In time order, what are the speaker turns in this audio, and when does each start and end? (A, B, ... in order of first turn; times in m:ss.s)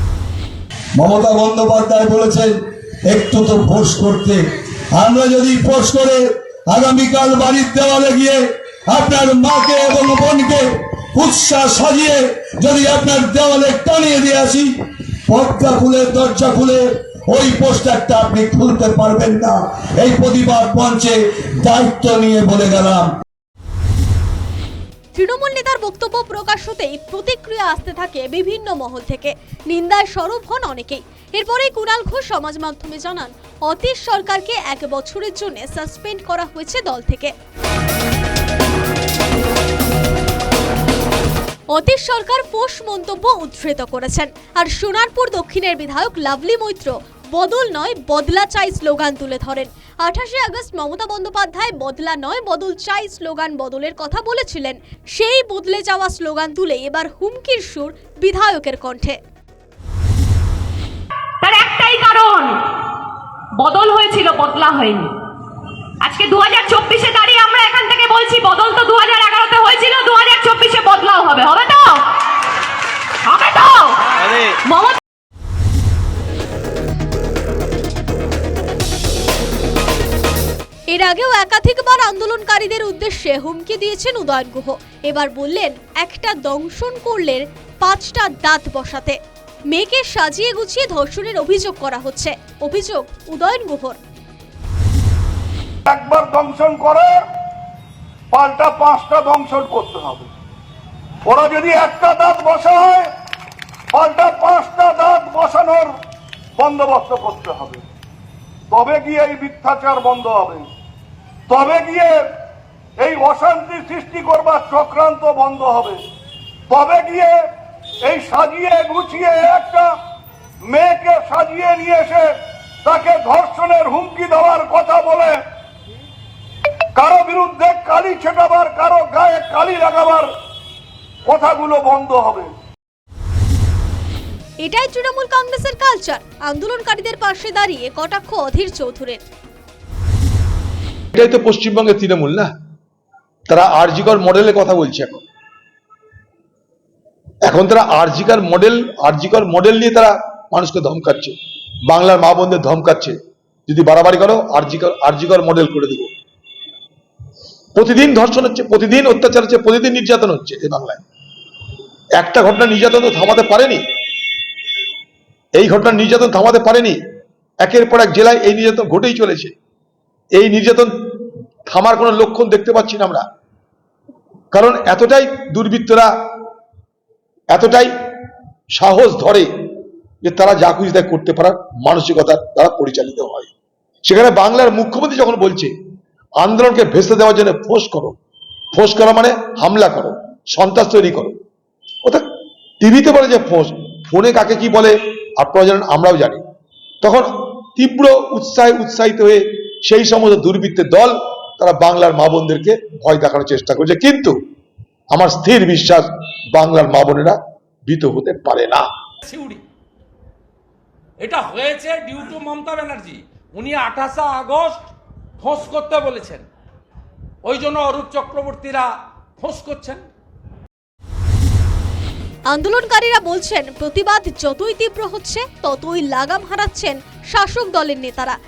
0:01.0-0:04.4 A
0:04.9-0:14.7 A
0:15.3-0:23.1 A
0:25.1-0:37.3 B
0:41.7-0:59.2 B
1:01.4-1:02.6 C
1:03.6-1:05.2 C
1:06.0-1:12.1 C
1:13.2-1:15.0 C
1:20.9-1:29.2 B
1:29.7-1:34.0 B
1:35.9-1:37.1 D
1:38.3-1:40.3 D
1:41.3-1:43.1 D
1:43.9-1:45.9 D
1:46.6-1:47.8 D
1:48.7-1:50.6 D
1:51.5-1:52.2 D
1:53.0-1:56.0 D
1:56.7-1:57.4 D
1:58.0-1:59.9 D
2:00.6-2:02.3 D
2:02.8-2:05.4 D
2:06.9-2:10.3 D
2:11.2-2:12.5 D
2:14.6-2:19.2 B
2:21.1-2:22.5 E
2:23.5-2:25.2 E
2:27.5-2:33.2 E
2:33.7-2:36.1 E
2:37.8-2:41.0 E
2:42.2-2:43.8 E
2:45.6-2:47.0 E
2:47.6-2:49.6 E
2:50.3-2:50.9 E
2:51.7-2:53.2 E
2:54.5-2:56.1 E
2:57.5-2:57.9 E
2:58.7-2:59.5 E
3:00.2-3:03.5 E
3:04.0-3:05.7 E
3:06.4-3:08.2 E
3:08.7-3:11.4 E
3:12.8-3:16.4 E
3:17.0-3:24.3 E
3:25.1-3:28.9 E
3:29.3-3:29.6 F
3:31.2-3:34.8 F
3:35.4-3:36.5 F
3:37.4-3:38.9 F
3:39.4-3:40.0 F
3:42.5-3:48.4 B